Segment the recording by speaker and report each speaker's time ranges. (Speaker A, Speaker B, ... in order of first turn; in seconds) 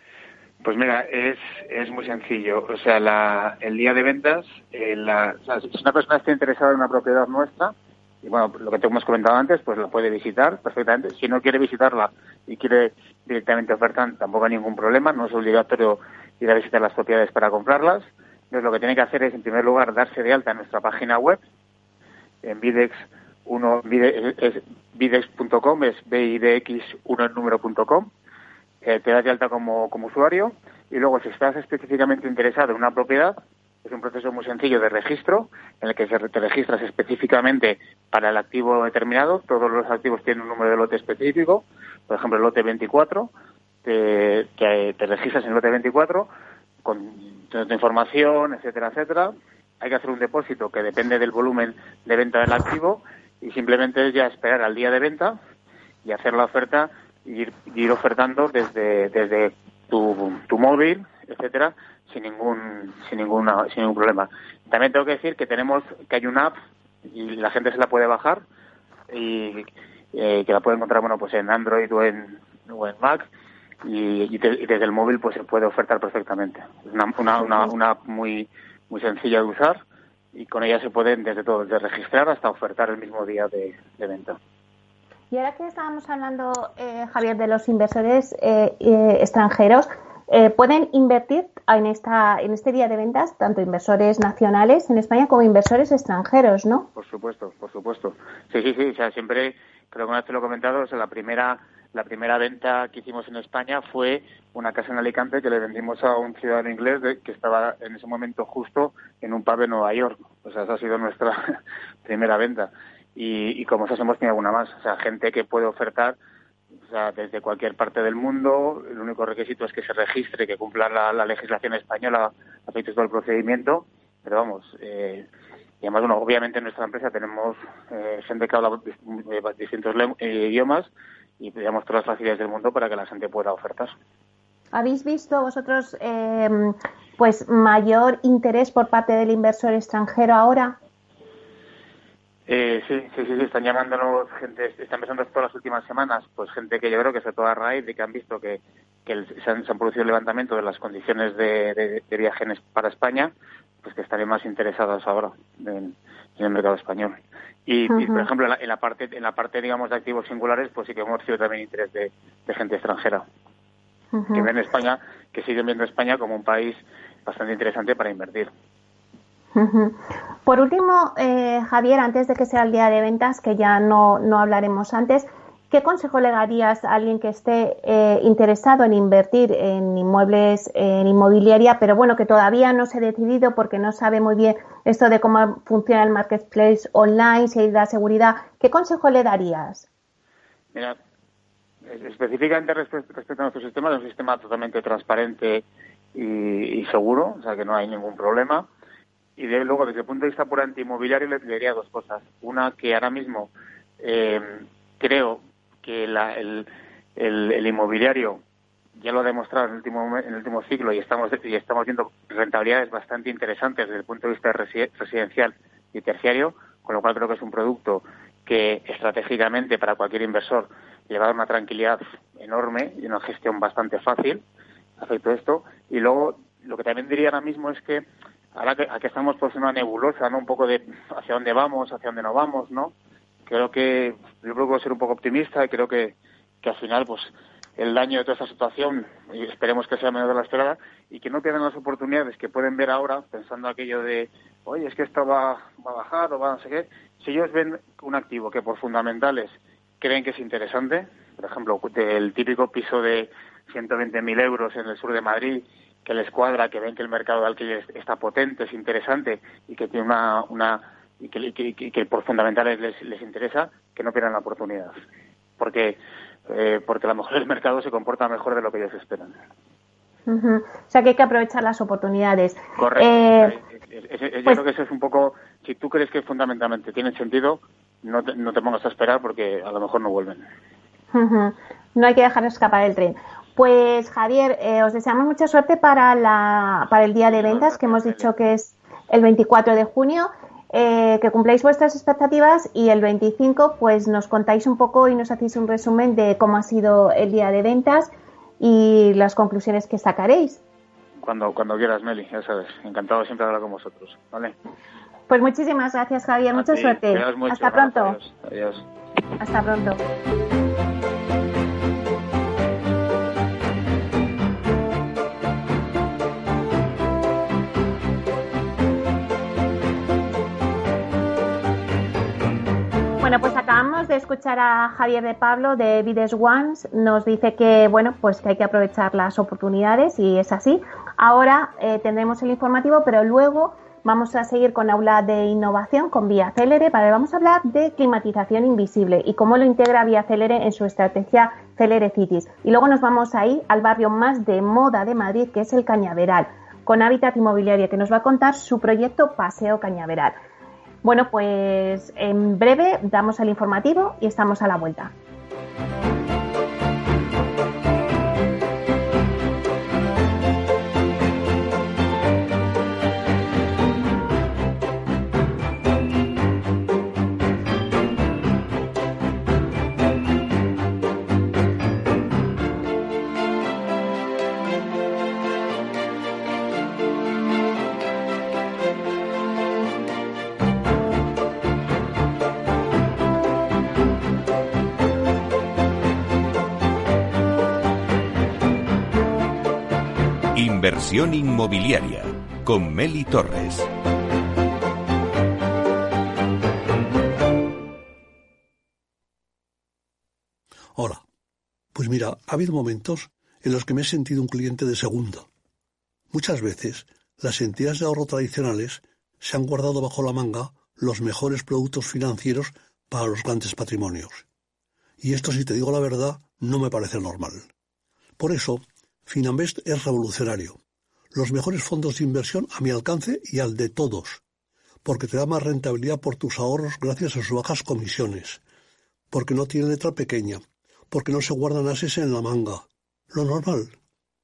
Speaker A: 0.6-21.4, 22.4-28.1, 28.8-43.3, 43.8-46.3, 46.8-55.4, 56.0-68.5, 69.1-73.3, 73.8-79.8, 80.3-84.4, 97.0-116.2, 116.8-125.3, 125.8-133.9, 142.5-163.3, 164.3-168.5, 191.9-198.7, 199.4-208.4, 208.9-224.4, 225.0-232.9, 233.5-265.0, 265.6-269.4, 272.8-280.5, 287.3-288.3, 301.2-304.6, 306.5-308.9
Speaker B: 85.3-96.9, 134.7-140.8, 157.9-158.3, 164.1-164.5, 169.6-189.9, 270.3-273.6, 281.1-300.6, 305.3-308.2, 309.4-310.0, 323.2-350.4, 351.0-355.1
Speaker C: 390.5-393.9
Speaker D: 401.0-401.2, 401.9-405.5, 406.3-414.4, 415.2-417.7, 418.4-420.8, 421.3-424.4, 425.1-428.6, 429.3-434.0